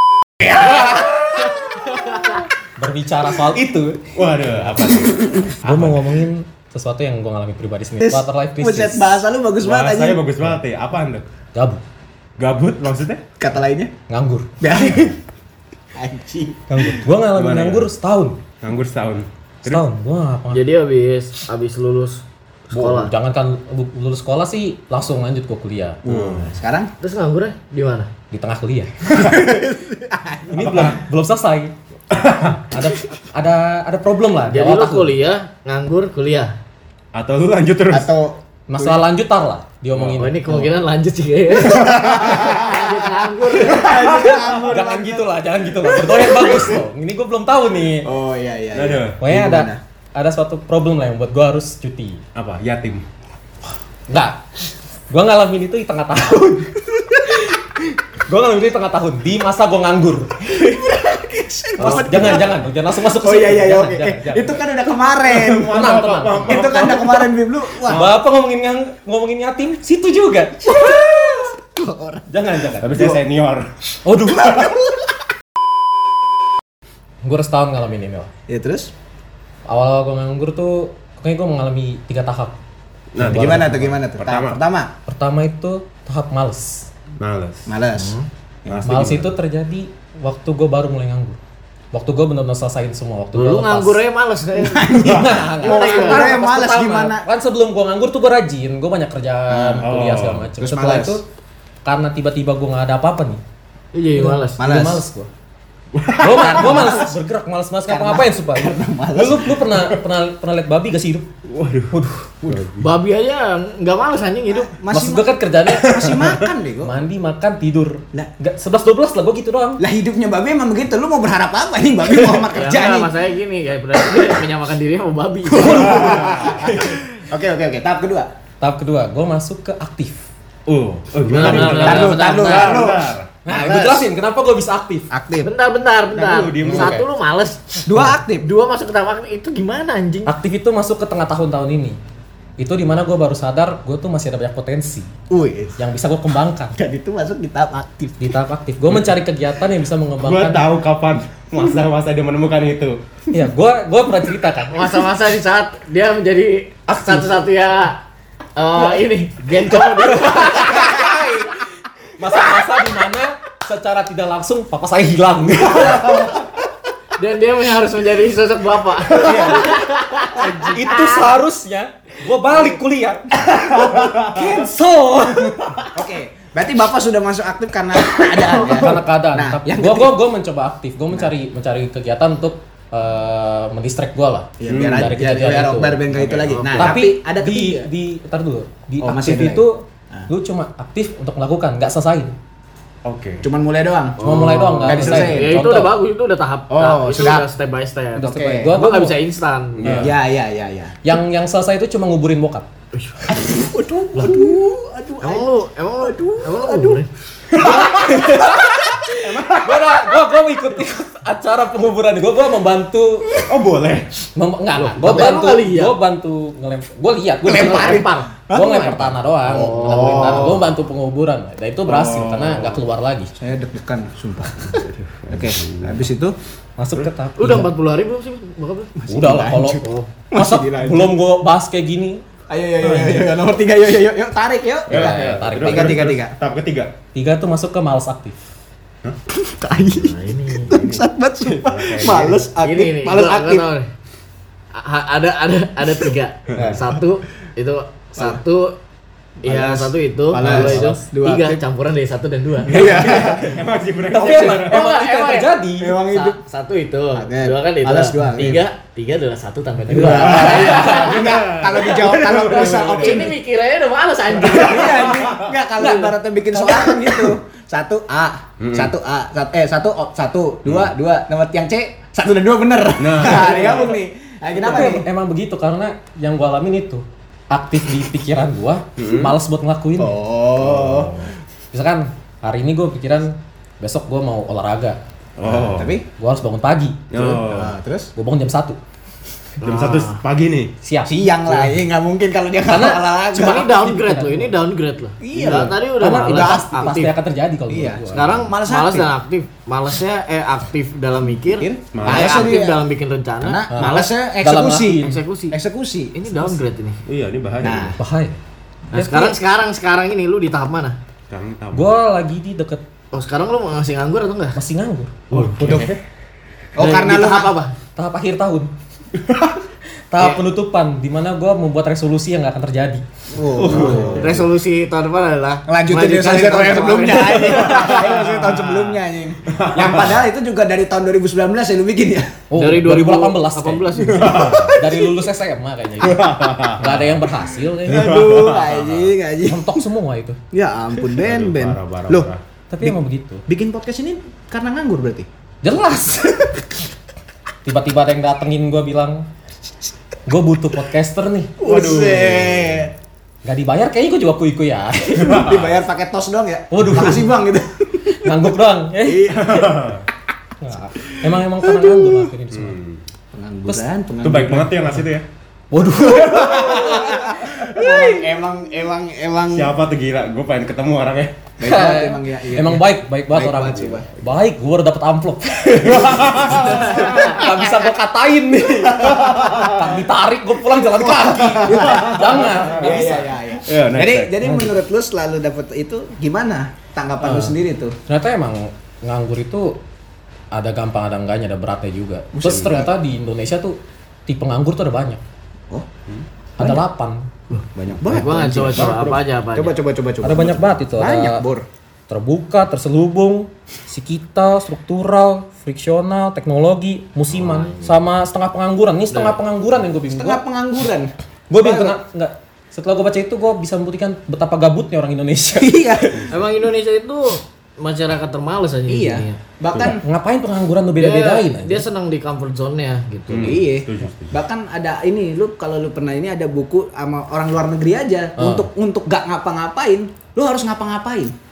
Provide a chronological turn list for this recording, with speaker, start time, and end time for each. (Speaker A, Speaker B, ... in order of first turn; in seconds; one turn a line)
Speaker A: 0.4-2.4
Speaker B: 2.8-4.0
Speaker C: 4.1-6.1
Speaker B: 5.6-9.0
Speaker A: 8.0-10.2
Speaker C: 9.6-11.2
Speaker B: 11.5-11.8
Speaker C: 12.4-13.2
Speaker A: 13.4-13.9
Speaker B: 14.1-14.6
Speaker A: 14.6-15.2
Speaker A: 15.9-16.9
Speaker B: 16.7-18.4
Speaker C: 17.3-17.9
Speaker C: 18.6-19.8
Speaker B: 19.6-20.7
Speaker D: 20.5-23.1
Speaker B: 22.7-26.3
Speaker C: 26.0-26.6
Speaker A: 26.1-26.9
Speaker D: 27.0-28.1
Speaker B: 28.3-29.1
Speaker C: 29.1-29.6
Speaker A: 29.1-30.9
Speaker B: 30.5-31.7
Speaker C: 30.6-31.0
Speaker C: 32.1-32.7
Speaker B: 32.7-35.1
Speaker D: 34.5-36.5
Speaker C: 37.1-38.1
Speaker A: 37.9-39.0
Speaker B: 38.7-40.7
Speaker C: 39.9-40.3
Speaker D: 40.2-44.3
Speaker C: 41.7-42.2
Speaker A: 41.9-45.3
Speaker C: 43.7-44.8
Speaker B: 44.6-48.1
Speaker A: 45.8-46.7
Speaker A: 48.0-49.8
Speaker C: 48.7-49.2
Speaker B: 49.2-52.2
Speaker C: 52.3-53.0
Speaker B: 54.1-54.4
Speaker B: 55.1-56.8
Speaker A: 57.0-57.2
Speaker B: 57.3-57.6
Speaker B: 58.2-60.5
Speaker A: 60.4-65.8
Speaker B: 61.8-64.6
Speaker C: 61.8-62.4
Speaker C: 65.2-67.3
Speaker B: 65.7-66.8
Speaker A: 66.4-68.1
Speaker C: 67.9-68.1
Speaker B: 67.9-70.9
Speaker A: 70.6-73.2
Speaker B: 72.3-73.1
Speaker C: 72.8-73.7
Speaker B: 74.0-74.7
Speaker A: 74.2-75.2
Speaker B: 77.2-78.3
Speaker A: 78.5-78.9
Speaker B: 79.7-82.5
Speaker C: 83.1-84.6
Speaker B: 83.2-84.0
Speaker A: 83.2-84.9
Speaker B: 85.1-86.9
Speaker C: 87.2-87.7
Speaker A: 87.7-88.1
Speaker D: 87.9-88.3
Speaker C: 88.7-89.3
Speaker B: 88.8-91.4
Speaker B: 91.9-94.0
Speaker D: 93.3-95.0
Speaker A: 94.6-97.2
Speaker B: 95.0-101.2
Speaker C: 95.0-95.4
Speaker D: 95.6-96.3
Speaker A: 99.5-99.9
Speaker C: 99.8-100.5
Speaker A: 100.6-101.2
Speaker B: 101.8-103.4
Speaker D: 103.9-104.6
Speaker B: 104.2-105.3
Speaker A: 104.6-105.0
Speaker C: 105.9-107.0
Speaker B: 106.2-111.3
Speaker A: 106.2-107.2
Speaker A: 107.9-109.6
Speaker C: 109.7-110.0
Speaker C: 111.5-112.9
Speaker B: 111.9-112.7
Speaker D: 112.8-114.7
Speaker A: 114.5-116.9
Speaker B: 114.9-119.8
Speaker C: 115.7-116.5
Speaker A: 119.8-123.1
Speaker D: 122.5-126.7
Speaker A: 125.5-128.3
Speaker C: 125.5-127.0
Speaker B: 128.6-130.2
Speaker C: 130.7-133.3
Speaker D: 131.3-132.9
Speaker B: 131.4-132.2
Speaker A: 131.4-134.1
Speaker B: 133.4-135.1
Speaker A: 135.1-135.5
Speaker D: 135.4-140.3
Speaker C: 136.1-137.0
Speaker B: 136.6-137.0
Speaker A: 137.8-138.5
Speaker B: 140.2-142.0
Speaker B: 142.6-145.1
Speaker A: 145.3-145.8
Speaker B: 145.8-146.7
Speaker A: 146.7-148.3
Speaker B: 148.2-150.6
Speaker C: 150.2-153.0
Speaker B: 153.3-155.0
Speaker D: 154.7-158.0
Speaker B: 156.9-157.3
Speaker D: 158.6-161.4
Speaker B: 159.8-161.1
Speaker A: 160.8-161.2
Speaker B: 162.2-166.4
Speaker D: 167.2-171.1
Speaker B: 169.1-175.9
Speaker C: 169.2-169.6
Speaker A: 170.4-171.2
Speaker C: 173.8-174.6
Speaker A: 174.3-174.7
Speaker A: 175.9-180.2
Speaker B: 178.5-186.0
Speaker A: 184.6-187.9
Speaker C: 184.7-185.1
Speaker C: 186.1-186.6
Speaker D: 186.5-186.9
Speaker B: 186.7-192.3
Speaker A: 189.0-190.3
Speaker C: 193.0-193.5
Speaker A: 193.4-194.2
Speaker D: 194.2-200.0
Speaker B: 194.2-195.9
Speaker A: 194.8-195.6
Speaker A: 196.7-197.5
Speaker B: 198.2-199.2
Speaker A: 198.2-198.7
Speaker C: 199.8-200.2
Speaker B: 199.8-200.1
Speaker A: 200.0-201.0
Speaker B: 201.0-202.7
Speaker D: 202.9-203.3
Speaker A: 203.3-207.0
Speaker D: 204.1-204.5
Speaker D: 205.2-207.1
Speaker C: 207.5-208.4
Speaker B: 207.6-213.4
Speaker A: 207.6-209.5
Speaker C: 209.2-209.8
Speaker C: 213.4-214.1
Speaker B: 214.3-223.3
Speaker D: 214.7-215.9
Speaker A: 217.4-220.7
Speaker D: 217.5-218.3
Speaker D: 219.5-220.7
Speaker C: 221.9-222.8
Speaker A: 223.4-226.3
Speaker C: 224.7-226.0
Speaker B: 226.8-227.7
Speaker D: 227.4-228.9
Speaker A: 228.9-231.1
Speaker B: 229.1-232.2
Speaker D: 229.8-230.1
Speaker A: 232.5-236.3
Speaker B: 232.9-233.2
Speaker C: 232.9-233.2
Speaker B: 234.9-236.0
Speaker C: 234.9-236.9
Speaker B: 237.1-238.3
Speaker A: 239.3-243.7
Speaker D: 239.9-240.8
Speaker C: 240.7-242.4
Speaker D: 242.6-243.9
Speaker D: 244.7-248.8
Speaker C: 246.5-246.8
Speaker D: 249.4-253.0
Speaker A: 249.4-251.6
Speaker B: 250.3-250.9
Speaker A: 252.6-253.6
Speaker C: 252.7-254.8
Speaker B: 254.1-255.9
Speaker D: 254.6-255.6
Speaker A: 255.8-256.4
Speaker D: 256.1-261.2
Speaker A: 257.1-258.6
Speaker A: 259.9-263.4
Speaker B: 259.9-261.1
Speaker C: 260.0-263.3
Speaker D: 262.5-265.2
Speaker C: 264.4-265.5
Speaker A: 264.4-275.1
Speaker B: 265.8-267.3
Speaker C: 268.6-268.9
Speaker C: 270.6-270.9
Speaker C: 273.0-274.0
Speaker B: 274.6-280.1
Speaker C: 274.6-274.9
Speaker C: 279.0-279.3
Speaker A: 280.0-281.3
Speaker C: 280.6-281.3
Speaker B: 281.7-285.0
Speaker C: 285.4-286.0
Speaker A: 285.4-286.1
Speaker B: 286.2-287.0
Speaker C: 287.1-287.7
Speaker A: 287.1-288.1
Speaker B: 288.1-288.8
Speaker C: 289.6-290.7
Speaker D: 289.6-290.2
Speaker B: 290.8-291.6
Speaker A: 291.0-293.7
Speaker B: 292.6-294.5
Speaker D: 293.3-297.1
Speaker A: 295.2-297.1
Speaker B: 295.4-298.3
Speaker A: 297.7-299.1
Speaker D: 298.1-304.1
Speaker A: 301.6-302.8
Speaker C: 301.9-302.6
Speaker A: 303.4-306.5
Speaker B: 303.7-305.2
Speaker D: 305.0-305.6
Speaker D: 306.1-307.0
Speaker C: 307.1-307.9
Speaker A: 307.6-308.0
Speaker B: 308.0-308.4
Speaker D: 308.9-311.0
Speaker B: 308.9-309.4
Speaker C: 311.3-311.9
Speaker B: 311.7-312.8
Speaker D: 313.1-314.6
Speaker B: 314.6-315.9
Speaker D: 315.3-315.8
Speaker C: 315.3-316.0
Speaker A: 315.6-315.9
Speaker A: 316.8-317.5
Speaker D: 316.8-317.8
Speaker B: 317.9-318.7
Speaker C: 319.2-319.5
Speaker B: 320.1-323.0
Speaker A: 323.3-324.3
Speaker C: 323.5-324.4
Speaker B: 323.6-324.0
Speaker D: 323.7-328.1
Speaker A: 325.7-332.4
Speaker C: 327.4-328.7
Speaker C: 329.5-330.2
Speaker B: 332.5-336.3
Speaker D: 332.5-334.7
Speaker C: 334.0-334.8
Speaker A: 334.3-335.0
Speaker C: 336.0-337.3
Speaker B: 336.8-338.2
Speaker A: 337.9-339.9
Speaker C: 337.9-339.1
Speaker B: 339.5-340.4
Speaker A: 340.5-342.3
Speaker C: 341.1-342.4
Speaker B: 342.7-343.4
Speaker A: 343.5-345.3
Speaker B: 345.6-346.6
Speaker B: 347.6-349.2
Speaker B: 350.3-351.5
Speaker A: 351.6-352.9
Speaker C: 351.6-352.9
Speaker B: 353.4-355.5
Speaker C: 355.1-355.8
Speaker A: 355.2-358.3
Speaker B: 356.7-357.4
Speaker B: 358.1-359.4
Speaker A: 359.0-359.9
Speaker C: 359.3-360.0
Speaker B: 360.6-362.8
Speaker A: 361.6-362.3
Speaker C: 362.5-363.0
Speaker A: 363.3-364.9
Speaker C: 364.2-365.2
Speaker B: 365.7-368.3
Speaker A: 365.9-369.8
Speaker C: 369.5-371.4
Speaker A: 371.6-374.2
Speaker B: 371.6-383.2
Speaker C: 375.8-377.4
Speaker A: 376.1-377.9
Speaker A: 379.1-379.6
Speaker A: 381.0-387.9
Speaker C: 381.6-384.4
Speaker B: 384.4-384.7
Speaker B: 387.2-387.5
Speaker B: 388.1-389.8
Speaker B: 390.5-395.2
Speaker A: 392.3-392.9
Speaker B: 396.6-397.3
Speaker A: 396.6-396.8
Speaker D: 397.6-399.7
Speaker A: 397.6-399.0
Speaker C: 398.6-399.2
Speaker A: 399.5-401.7
Speaker B: 400.2-401.4
Speaker B: 402.1-410.4
Speaker D: 407.3-408.0
Speaker D: 409.1-409.4
Speaker A: 410.1-412.0
Speaker B: 411.5-416.2
Speaker A: 415.6-416.2
Speaker D: 416.3-419.4
Speaker A: 418.9-420.0
Speaker B: 419.8-421.9
Speaker D: 421.0-423.6
Speaker C: 423.3-424.4
Speaker A: 423.4-431.3
Speaker B: 428.4-428.7